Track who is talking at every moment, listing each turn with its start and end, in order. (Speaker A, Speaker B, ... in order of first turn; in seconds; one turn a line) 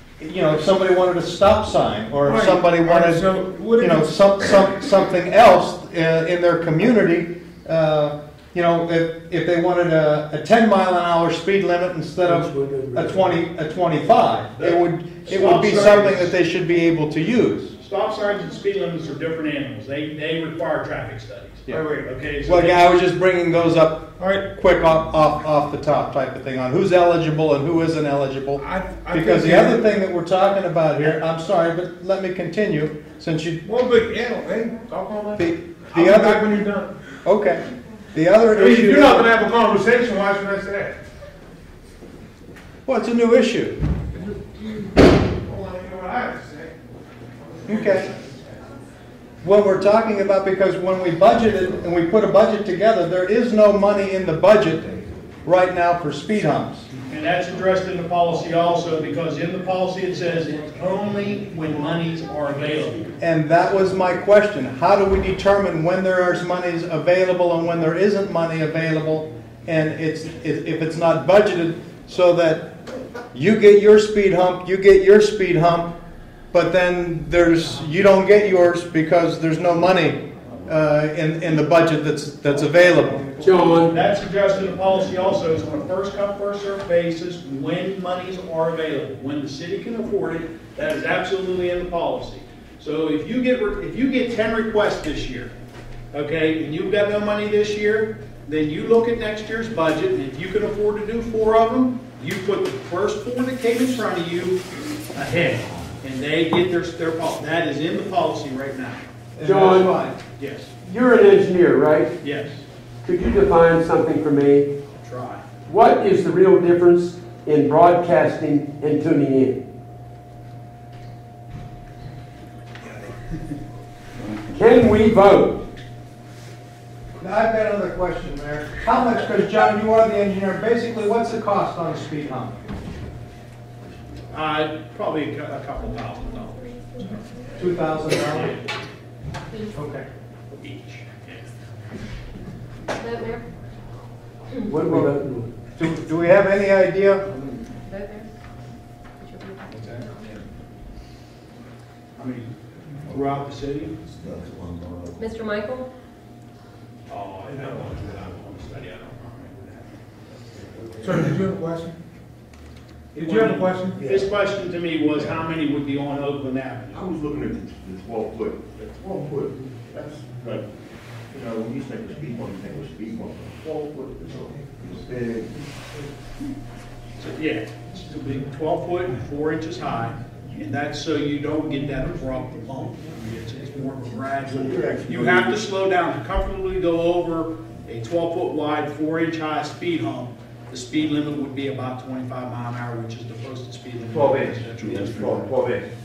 Speaker A: 0.2-3.2
Speaker B: 2.2-4.1
Speaker A: 3.8-17.7
Speaker C: 12.2-13.2
Speaker D: 14.6-16.3
Speaker D: 17.8-22.9
Speaker B: 21.7-22.1
Speaker A: 22.4-33.6
Speaker B: 28.6-29.9
Speaker B: 33.6-36.9
Speaker A: 35.4-36.5
Speaker A: 37.2-37.6
Speaker A: 38.1-39.3
Speaker B: 38.5-41.0
Speaker A: 42.9-43.8
Speaker B: 45.3-46.7
Speaker B: 47.4-48.6
Speaker A: 47.7-48.1
Speaker A: 49.4-54.9
Speaker A: 55.4-56.9
Speaker D: 57.1-63.1
Speaker A: 63.2-72.7
Speaker A: 73.3-75.9
Speaker A: 76.5-83.5
Speaker C: 83.4-83.9
Speaker D: 83.8-95.5
Speaker D: 96.1-109.0
Speaker A: 109.3-110.2
Speaker C: 109.4-109.9
Speaker D: 110.4-110.7
Speaker C: 110.8-112.1
Speaker D: 112.2-112.6
Speaker C: 113.0-114.7
Speaker D: 115.0-115.5
Speaker C: 115.7-119.6
Speaker C: 124.5-125.6
Speaker A: 127.2-132.6
Speaker D: 134.3-136.8
Speaker A: 137.6-138.5
Speaker D: 138.1-138.8
Speaker A: 139.7-140.1
Speaker D: 140.5-141.5
Speaker E: 143.0-143.4
Speaker C: 144.7-145.5
Speaker A: 145.7-147.2
Speaker E: 147.9-148.3
Speaker E: 149.2-150.2
Speaker D: 149.7-150.4
Speaker D: 152.2-152.5
Speaker D: 153.1-153.9
Speaker F: 154.1-155.2
Speaker E: 155.2-155.9
Speaker D: 157.1-160.0
Speaker B: 157.5-157.9
Speaker D: 160.6-160.9
Speaker B: 161.0-161.9
Speaker B: 163.1-164.1
Speaker D: 163.1-167.1
Speaker F: 166.9-170.7
Speaker F: 171.3-175.6
Speaker D: 177.2-195.5
Speaker F: 184.4-185.6
Speaker F: 194.1-195.9